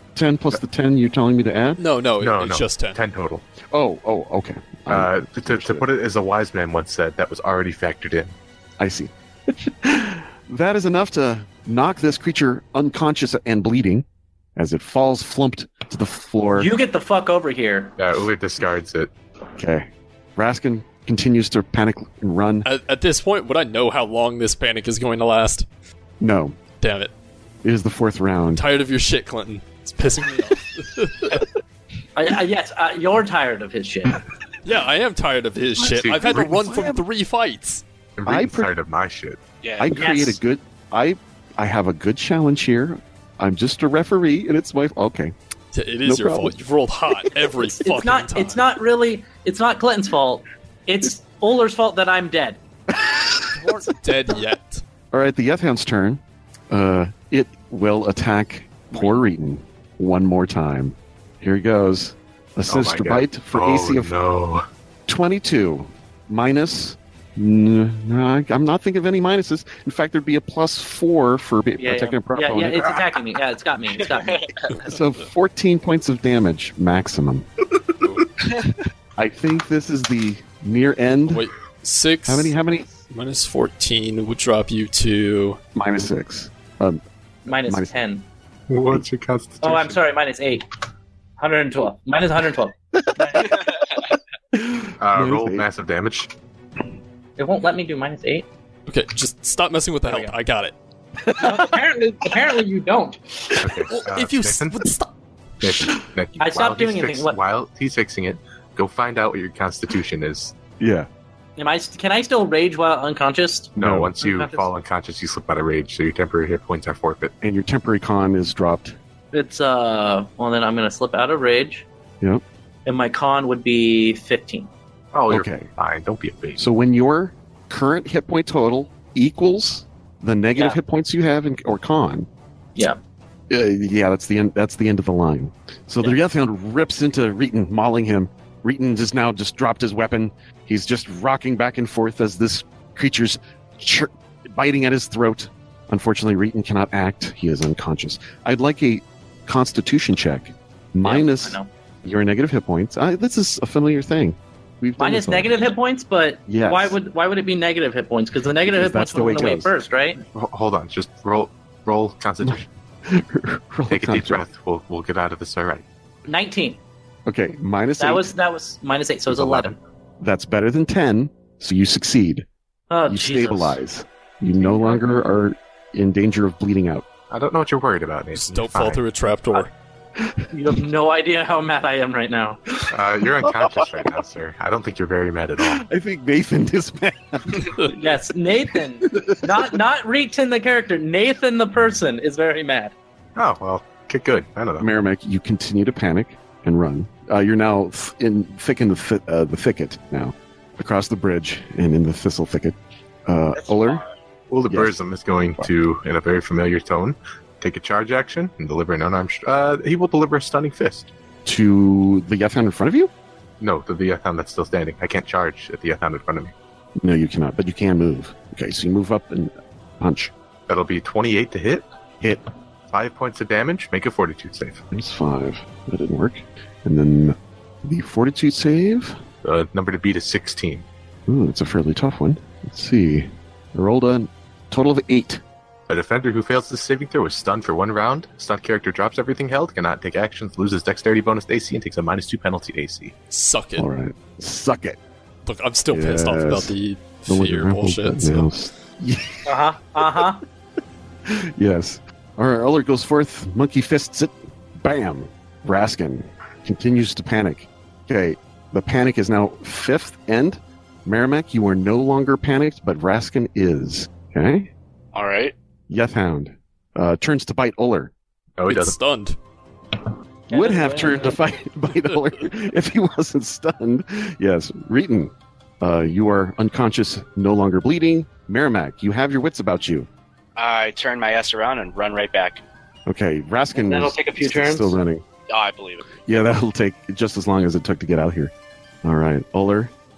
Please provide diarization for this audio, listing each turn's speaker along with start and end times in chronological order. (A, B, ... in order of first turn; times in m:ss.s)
0:00.2-0:01.8 A
0:01.8-0:03.0 B
0:02.2-0:03.5 C
0:03.7-0:05.9 A
0:04.9-0:08.4 C
0:08.8-0:16.7 A
0:16.5-0:18.0 D
0:18.0-0:19.1 C
0:19.6-0:22.7 A
0:22.6-0:25.7 B
0:26.2-0:26.6 A
0:26.8-0:27.1 B
0:27.6-0:28.6 A
0:28.5-0:31.5 B
0:32.2-0:34.2 D
0:34.6-0:37.8 B
0:35.8-0:36.4 C
0:36.2-0:37.0 A
0:38.2-0:39.4 C
0:38.2-0:38.7 A
0:39.6-0:40.0 E
0:39.8-0:45.3 A
0:39.9-0:40.4 D
0:45.7-0:48.6 B
0:46.0-0:46.6 A
0:47.6-0:52.6 D
0:52.9-0:53.6 A
0:53.6-0:54.0 D
0:54.0-0:54.8 B
0:55.1-1:04.1 A
1:02.7-1:04.6 C
1:05.1-1:13.0 A
1:11.8-1:14.5 D
1:14.2-1:14.7 E
1:14.8-1:17.5 A
1:19.2-1:21.5 A
1:21.3-1:22.6 B
1:22.3-1:22.9 A
1:23.1-1:25.6 B
1:25.8-1:27.9 A
1:27.5-1:28.3 D
1:28.7-1:30.0 C
1:29.6-1:30.6 D
1:31.4-1:33.6 D
1:33.5-1:34.0 E
1:34.5-1:35.7 A
1:35.0-1:36.3 C
1:37.4-1:38.5 D
1:38.9-1:40.8 B
1:40.0-1:40.4 D
1:41.3-1:43.2 D
1:43.6-1:44.9 C
1:43.9-1:45.1 B
1:45.6-1:50.5 C
1:46.4-1:47.4 D
1:50.8-1:51.1 A
1:51.6-1:54.7 D
1:53.8-1:54.1 A
1:53.8-1:57.3 C
1:57.4-1:59.0 A
1:59.3-2:01.9 D
2:02.9-2:04.7 D
2:05.1-2:06.6 C
2:05.3-2:05.7 A
2:06.6-2:12.3 A
2:13.5-2:35.6 A
2:31.0-2:31.7 D
2:35.0-2:40.2 D
2:36.5-2:37.0 A
2:38.6-2:39.7 A
2:40.3-2:42.6 C
2:42.4-2:44.5 A
2:43.9-2:45.9 C
2:46.3-2:46.8 D
2:47.3-2:48.3 A
2:48.0-2:49.8 D
2:49.3-2:49.8 C
2:50.2-2:52.5 A
2:52.9-2:53.8 D
2:53.1-2:57.1 A
2:54.6-2:55.1 D
2:57.3-2:59.0 C
2:58.3-2:59.7 B
3:00.2-3:00.5 A
3:00.5-3:02.6 D
3:02.9-3:05.8 C
3:03.2-3:04.1 A
3:05.6-3:07.9 A
3:07.9-3:12.9 D
3:09.0-3:09.8 A
3:13.4-3:14.9 C
3:14.8-3:24.0 A
3:24.5-3:31.1 C
3:24.7-3:25.0 A
3:31.4-3:33.1 A
3:33.6-3:36.5 C
3:37.0-3:40.3 A
3:40.7-3:41.8 C
3:42.9-3:44.8 C
3:44.9-3:49.2 A
3:49.4-3:50.9 C
3:51.3-3:55.4 A
3:55.9-4:03.1 C
4:03.3-4:03.9 B
4:03.8-4:05.0 A
4:05.4-4:08.5 B
4:05.9-4:06.8 A
4:07.3-4:10.3 A
4:09.4-4:10.4 D
4:11.2-4:24.7 A
4:25.1-4:25.6 E
4:25.9-4:28.1 A
4:28.6-4:29.0 C
4:28.7-4:29.4 B
4:30.5-4:31.4 D
4:30.5-4:40.1 A
4:40.6-4:42.6 E
4:43.1-4:45.2 A
4:43.8-4:44.9 E
4:43.9-4:44.9 D
4:45.5-4:46.1 E
4:46.3-4:48.5 A
4:49.0-4:49.9 A